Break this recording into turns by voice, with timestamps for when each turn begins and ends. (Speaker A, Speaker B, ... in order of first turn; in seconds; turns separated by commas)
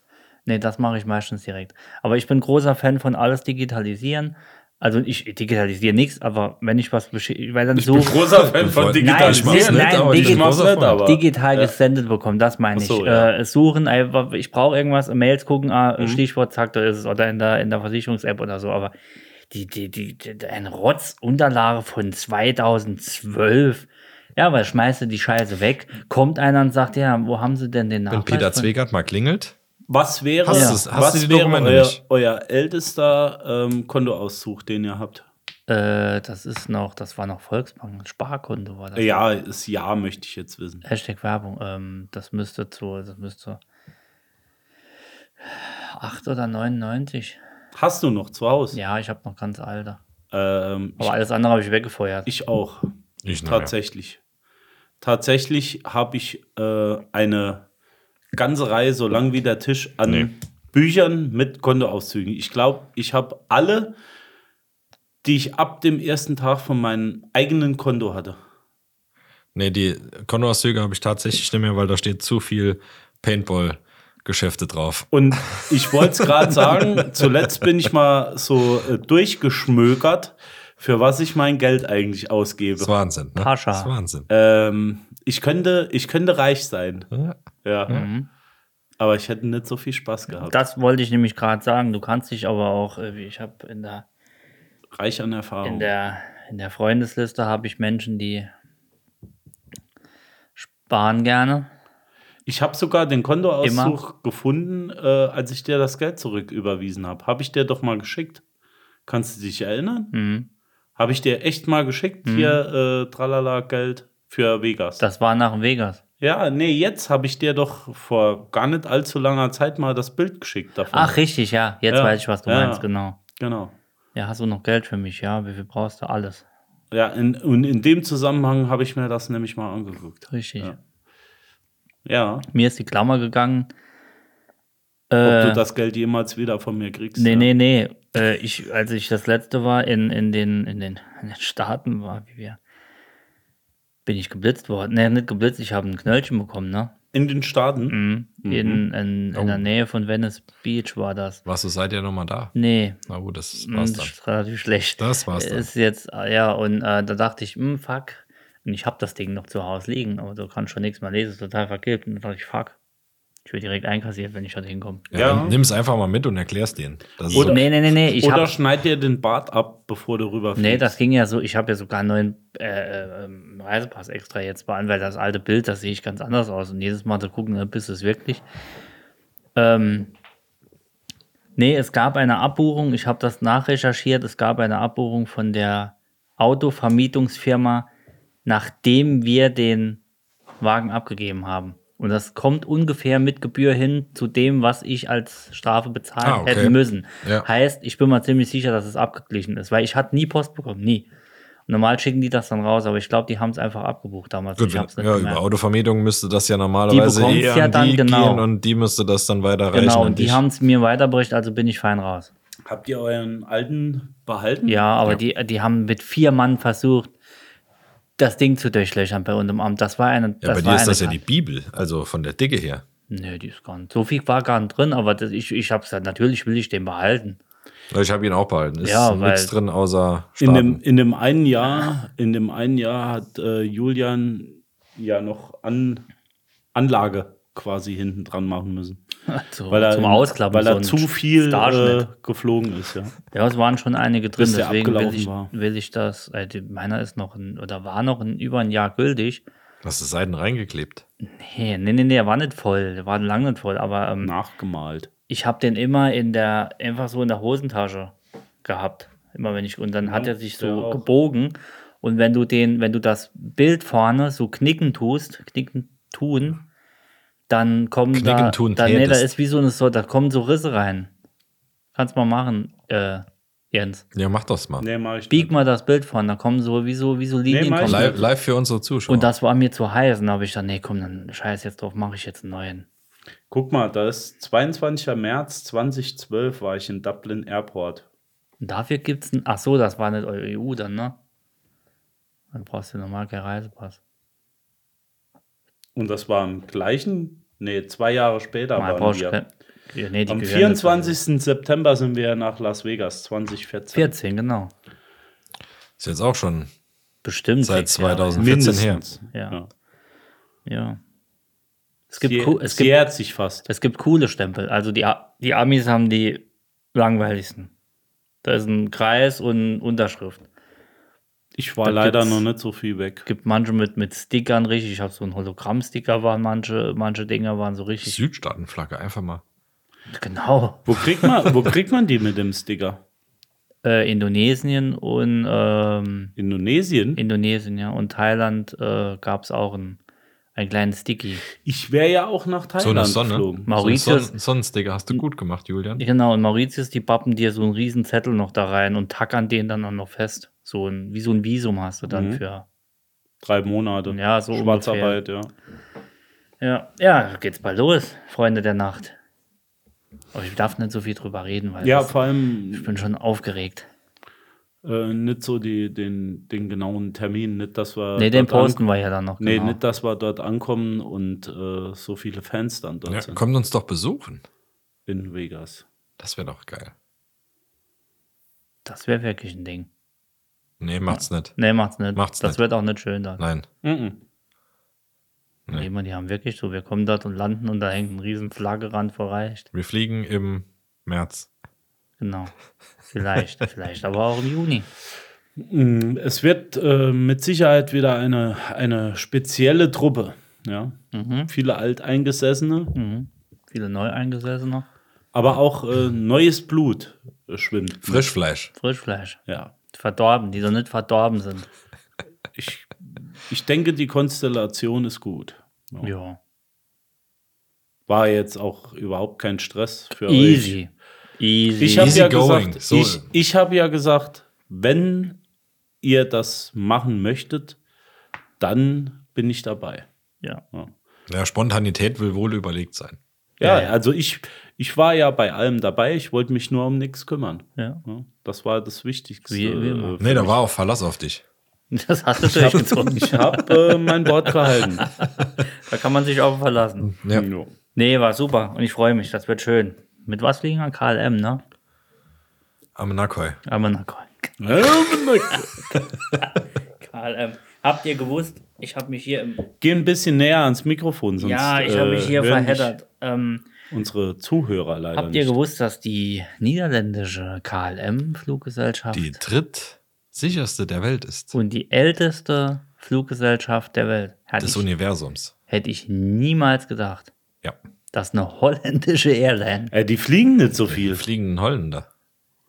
Speaker A: 0.5-8.2, Speaker B: 7.8-11.8, Speaker C: 8.3-11.1, Speaker A: 8.9-18.9, Speaker B: 12.8-13.3, Speaker B: 16.0-16.2, Speaker A: 19.5-28.7, Speaker C: 28.1-29.6, Speaker B: 29.9-35.3, Speaker C: 30.4-32.0, Speaker A: 30.5-30.8, Speaker A: 35.7-39.2, Speaker B: 39.0-40.9, Speaker A: 40.8-43.6, Speaker A: 45.4-47.4, Speaker B: 47.8-48.8, Speaker A: 48.7-50.0, Speaker B: 50.3-51.2, Speaker A: 51.0-52.3, Speaker B: 52.3-52.9, Speaker C: 53.2-53.7, Speaker B: 53.5-54.2, Speaker B: 55.0-57.7, Speaker B: 58.3-63.9, Speaker B: 65.2-68.4, Speaker C: 69.5-75.7, Speaker B: 75.1-82.9, Speaker C: 76.7-77.0, Speaker C: 82.8-84.3, Speaker A: 83.4-83.9, Speaker B: 84.3-87.1, Speaker C: 87.1-88.1, Speaker B: 87.6-87.9, Speaker A: 87.9-88.3, Speaker B: 89.0-90.6, Speaker A: 90.3-94.1, Speaker B: 94.9-95.9, Speaker A: 95.6-98.5, Speaker A: 100.6-101.7, Speaker B: 102.5-108.4, Speaker A: 103.6-104.0, Speaker B: 109.1-110.1, Speaker A: 110.1-110.5, Speaker B: 111.0-115.0, Speaker A: 112.2-112.6, Speaker A: 115.0-116.0, Speaker B: 116.2-121.2, Speaker A: 120.9-123.2, Speaker B: 121.9-123.8, Speaker A: 124.1-126.5, Speaker B: 126.9-130.8, Speaker A: 130.3-130.8, Speaker B: 132.1-132.5, Speaker A: 132.5-133.7, Speaker A: 135.1-135.6, Speaker B: 135.2-137.5, Speaker A: 137.2-142.6, Speaker A: 144.1-146.9, Speaker B: 147.1-148.8, Speaker A: 147.9-151.4, Speaker C: 149.3-149.7, Speaker C: 151.4-152.6, Speaker A: 152.5-153.0, Speaker C: 153.1-154.1, Speaker A: 153.6-162.8, Speaker C: 155.0-155.7, Speaker A: 163.4-165.1, Speaker B: 165.1-165.6, Speaker C: 165.1-167.7, Speaker B: 167.3-171.0, Speaker A: 167.3-168.6, Speaker A: 170.6-178.4, Speaker A: 179.6-180.1, Speaker A: 181.6-187.9, Speaker A: 188.4-190.0, Speaker A: 190.6-201.1, Speaker C: 196.2-197.5, Speaker A: 201.7-205.4, Speaker C: 204.6-210.4, Speaker A: 206.9-208.5, Speaker A: 209.7-212.3, Speaker B: 212.7-214.9, Speaker A: 214.7-217.1, Speaker A: 218.2-221.2, Speaker C: 220.4-222.8, Speaker A: 223.1-227.4, Speaker C: 227.9-230.8, Speaker A: 228.8-229.5, Speaker B: 230.4-236.1, Speaker B: 236.8-239.0, Speaker A: 239.3-242.1, Speaker B: 239.7-243.2, Speaker A: 243.3-249.4, Speaker B: 244.4-245.5, Speaker C: 249.8-251.0, Speaker A: 251.2-254.3, Speaker B: 254.2-255.1, Speaker A: 255.3-266.6, Speaker B: 260.0-261.1, Speaker A: 267.5-271.1, Speaker C: 268.1-269.3, Speaker A: 271.9-274.0, Speaker C: 274.1-274.9, Speaker B: 274.8-275.5, Speaker A: 275.3-278.3, Speaker B: 277.5-278.1, Speaker C: 277.8-279.3, Speaker A: 279.1-282.9, Speaker B: 283.5-288.1, Speaker A: 288.6-291.2, Speaker A: 292.5-294.0, Speaker B: 296.0-299.4, Speaker A: 298.8-301.2, Speaker B: 300.3-304.1, Speaker A: 303.9-304.7, Speaker C: 306.0-306.7, Speaker A: 307.2-308.6, Speaker C: 307.6-309.1, Speaker B: 308.4-309.7, Speaker A: 309.3-309.6, Speaker A: 310.7-311.0, Speaker A: 312.1-313.1, Speaker B: 312.2-313.7, Speaker A: 313.6-317.7, Speaker A: 318.4-320.5, Speaker B: 321.6-323.3, Speaker A: 321.8-322.5, Speaker A: 323.3-328.2, Speaker C: 328.0-329.4, Speaker A: 330.1-330.9, Speaker B: 330.9-333.0, Speaker A: 333.8-336.3, Speaker B: 336.4-337.2, Speaker A: 337.2-340.0, Speaker A: 340.6-341.4, Speaker B: 341.6-343.7, Speaker C: 342.8-346.1, Speaker A: 343.7-344.3, Speaker A: 346.0-352.6, Speaker B: 352.1-352.4, Speaker B: 353.4-355.5, Speaker A: 354.1-355.2, Speaker A: 356.6-359.2, Speaker A: 360.3-362.2, Speaker B: 361.8-363.0, Speaker A: 362.7-363.9, Speaker B: 364.8-368.9, Speaker A: 368.2-369.8, Speaker B: 369.4-373.4, Speaker C: 373.1-374.4, Speaker B: 375.1-375.8, Speaker C: 376.2-376.9, Speaker A: 378.9-379.9, Speaker C: 380.8-382.6, Speaker A: 381.1-383.4, Speaker C: 383.4-383.7, Speaker B: 383.8-384.2, Speaker A: 385.7-389.7, Speaker C: 389.7-391.5, Speaker A: 392.2-392.5, Speaker A: 393.1-394.9, Speaker B: 395.6-402.9, Speaker A: 401.1-401.5, Speaker A: 402.9-404.9, Speaker B: 405.3-408.3, Speaker C: 408.1-408.7, Speaker A: 408.7-411.7, Speaker B: 409.5-409.7, Speaker B: 412.6-416.1, Speaker A: 416.0-416.4, Speaker B: 418.1-420.8, Speaker A: 420.2-422.3, Speaker B: 421.8-425.4, Speaker C: 422.0-423.3, Speaker B: 426.0-427.8, Speaker B: 428.6-430.1, Speaker C: 431.3-433.2, Speaker B: 433.6-440.6, Speaker A: 433.6-433.9, Speaker A: 437.8-438.0, Speaker A: 439.5-440.2, Speaker C: 440.2-441.4, Speaker A: 441.9-443.8, Speaker B: 442.5-445.1, Speaker A: 445.2-447.1, Speaker C: 447.0-447.4, Speaker B: 447.3-447.7, Speaker A: 447.9-451.6, Speaker C: 453.0-453.6, Speaker A: 453.7-454.5, Speaker B: 454.6-455.7, Speaker A: 456.4-459.7, Speaker B: 459.8-463.0, Speaker A: 461.4-463.7, Speaker B: 463.9-465.6, Speaker A: 465.1-469.4, Speaker C: 469.1-471.6, Speaker A: 471.5-474.9, Speaker C: 474.6-475.5, Speaker A: 475.7-477.3, Speaker A: 478.1-479.9, Speaker B: 479.9-481.2, Speaker C: 481.1-482.1